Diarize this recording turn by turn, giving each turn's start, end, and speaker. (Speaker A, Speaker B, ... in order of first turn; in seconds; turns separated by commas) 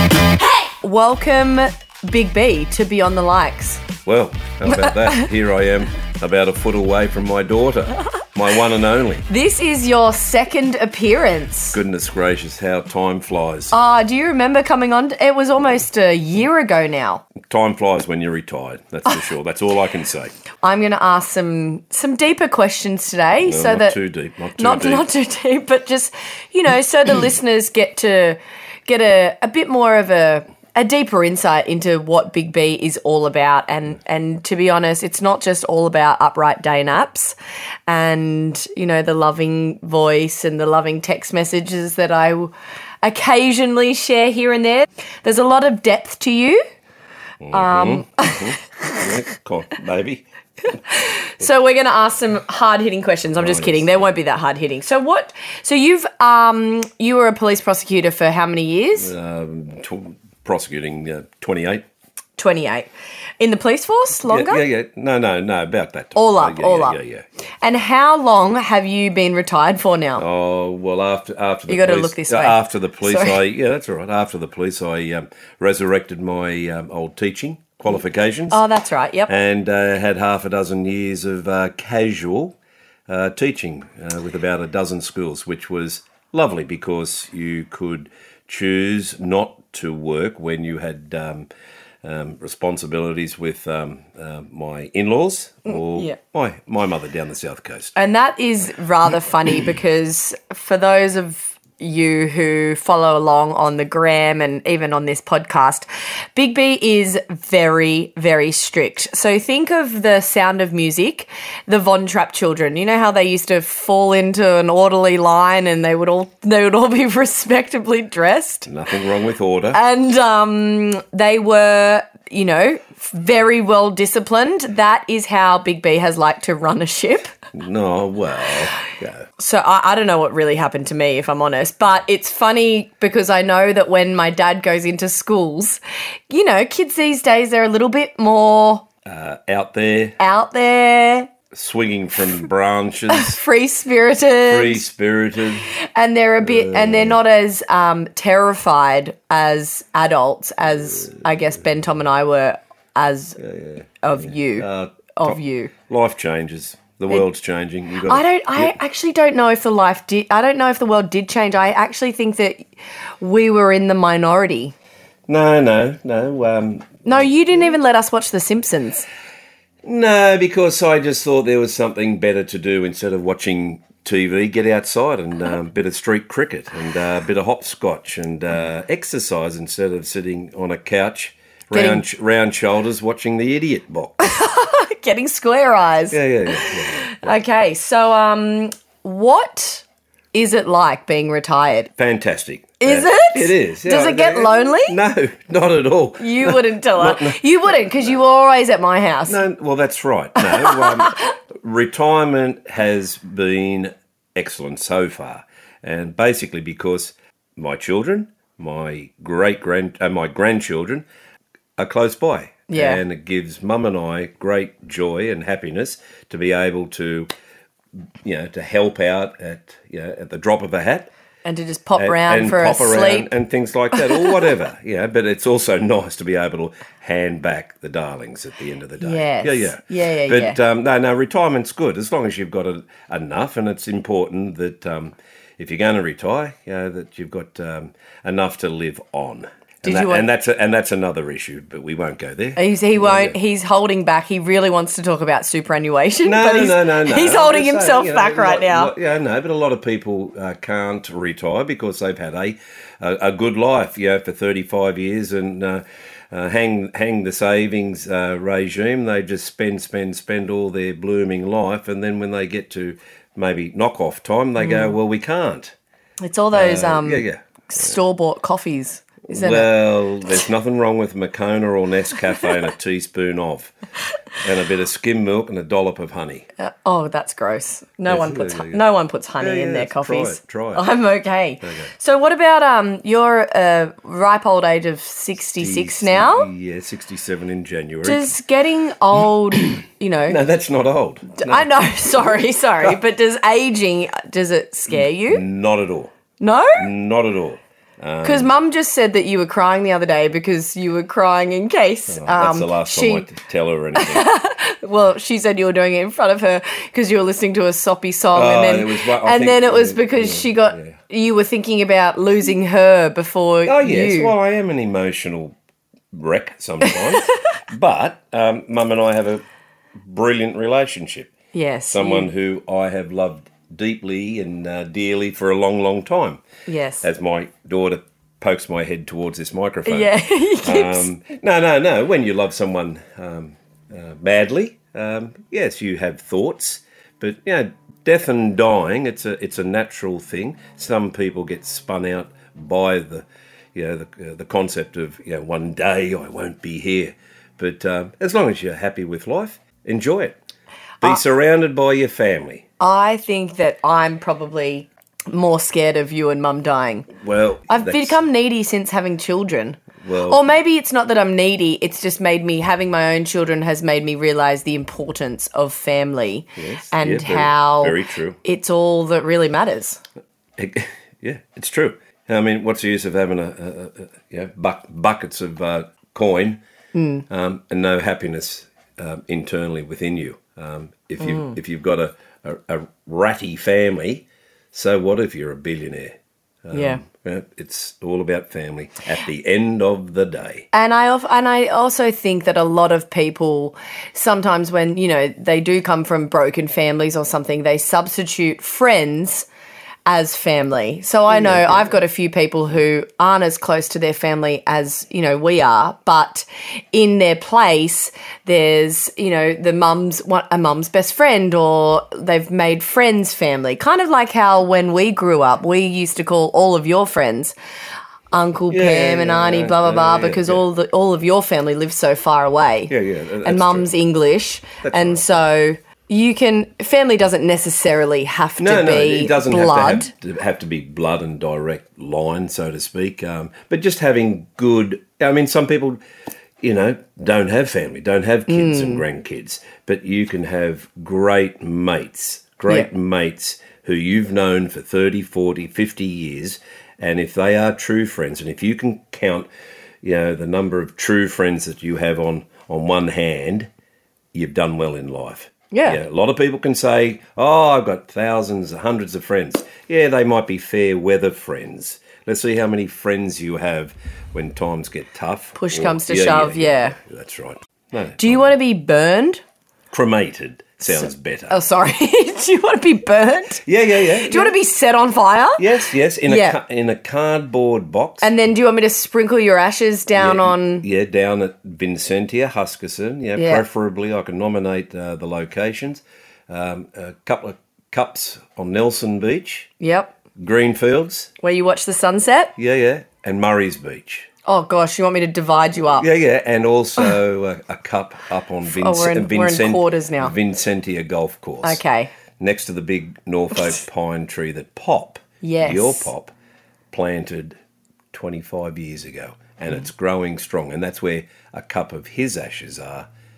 Speaker A: 0.8-3.8, Speaker B: 4.0-9.2, Speaker A: 4.8-5.2, Speaker A: 9.3-11.8, Speaker B: 11.7-13.7, Speaker A: 13.7-17.2, Speaker B: 17.5-20.3, Speaker A: 20.6-24.0, Speaker B: 23.4-25.1, Speaker A: 24.6-37.3, Speaker A: 37.9-46.6, Speaker B: 47.4-50.2, Speaker A: 47.5-49.0, Speaker A: 50.9-59.1, Speaker B: 53.4-54.0, Speaker B: 59.0-61.8, Speaker A: 62.4-62.9, Speaker A: 63.4-64.6, Speaker B: 64.3-67.2, Speaker A: 66.1-67.0, Speaker A: 67.6-70.2, Speaker B: 70.2-78.6, Speaker A: 71.7-73.4, Speaker A: 78.5-79.3, Speaker B: 79.3-82.6, Speaker B: 83.1-91.5, Speaker B: 92.0-97.9, Speaker A: 95.7-96.2, Speaker A: 98.0-118.7, Speaker B: 118.7-119.8, Speaker A: 119.7-127.3, Speaker B: 127.5-129.2, Speaker A: 129.4-138.8, Speaker B: 139.0-140.2, Speaker A: 140.2-141.3, Speaker B: 141.5-143.4, Speaker A: 143.1-144.8, Speaker B: 144.5-145.7, Speaker A: 145.6-153.4, Speaker B: 146.4-147.2, Speaker B: 153.4-158.7, Speaker A: 154.0-155.7, Speaker A: 158.1-162.7, Speaker A: 163.2-164.7, Speaker B: 165.3-167.3, Speaker A: 167.0-169.1, Speaker B: 169.8-184.2, Speaker A: 181.7-182.0, Speaker A: 184.2-191.9, Speaker B: 186.1-187.4, Speaker B: 192.0-197.4, Speaker A: 192.8-195.0, Speaker A: 196.2-199.4, Speaker B: 199.3-211.1, Speaker A: 200.4-201.3, Speaker B: 211.8-217.3, Speaker A: 212.7-213.0, Speaker B: 218.2-221.1, Speaker A: 221.4-223.3, Speaker B: 222.0-243.4, Speaker A: 223.9-224.2, Speaker A: 229.0-230.6, Speaker A: 239.8-240.2, Speaker A: 242.6-248.9, Speaker B: 246.2-265.7, Speaker A: 264.6-264.9, Speaker A: 266.2-269.7, Speaker B: 266.5-268.0, Speaker B: 269.3-273.7, Speaker B: 274.4-276.5, Speaker A: 276.6-286.5, Speaker B: 278.1-278.8, Speaker B: 279.4-280.8, Speaker B: 281.6-281.9, Speaker B: 285.6-288.3, Speaker A: 288.0-290.4, Speaker B: 290.3-291.7, Speaker A: 291.4-295.4, Speaker B: 294.9-296.1, Speaker A: 296.4-296.9, Speaker B: 296.8-298.5, Speaker A: 298.2-303.3, Speaker B: 302.1-304.3, Speaker A: 303.9-314.3, Speaker B: 308.3-311.0, Speaker B: 313.6-315.6, Speaker B: 316.1-319.4, Speaker B: 320.1-321.3, Speaker A: 321.5-322.3, Speaker B: 321.9-326.4, Speaker A: 326.7-327.1, Speaker B: 327.0-350.4, Speaker A: 329.8-331.1, Speaker B: 351.0-352.6, Speaker A: 352.8-357.1, Speaker B: 357.1-358.2, Speaker A: 357.7-370.0, Speaker B: 360.0-360.4, Speaker B: 366.6-368.4, Speaker B: 370.6-376.6, Speaker A: 376.9-377.2, Speaker B: 377.3-390.7, Speaker A: 381.2-381.5, Speaker A: 386.7-387.0, Speaker A: 390.7-399.5, Speaker A: 400.1-417.5, Speaker B: 401.3-401.9, Speaker A: 418.3-422.9, Speaker B: 418.7-420.6, Speaker B: 422.9-423.9, Speaker A: 423.4-430.1, Speaker B: 424.8-425.3, Speaker B: 428.6-436.0, Speaker B: 436.6-449.5, Speaker A: 438.5-439.0, Speaker B: 450.0-453.7, Speaker B: 454.3-468.5, Speaker A: 455.7-456.0, Speaker A: 465.6-466.9, Speaker A: 468.2-469.4, Speaker B: 469.9-471.5, Speaker A: 470.9-475.6, Speaker B: 473.6-474.5, Speaker B: 475.6-478.3, Speaker A: 476.3-476.6, Speaker A: 478.2-480.9, Speaker B: 480.1-489.7, Speaker A: 483.4-483.6, Speaker A: 489.8-490.1, Speaker B: 490.4-491.3, Speaker A: 491.4-492.5, Speaker B: 492.6-494.3, Speaker A: 494.4-496.1, Speaker B: 496.0-501.8, Speaker A: 498.6-500.3, Speaker A: 501.6-502.1, Speaker B: 502.4-506.3, Speaker A: 505.4-506.1, Speaker B: 506.9-507.6, Speaker B: 508.1-513.1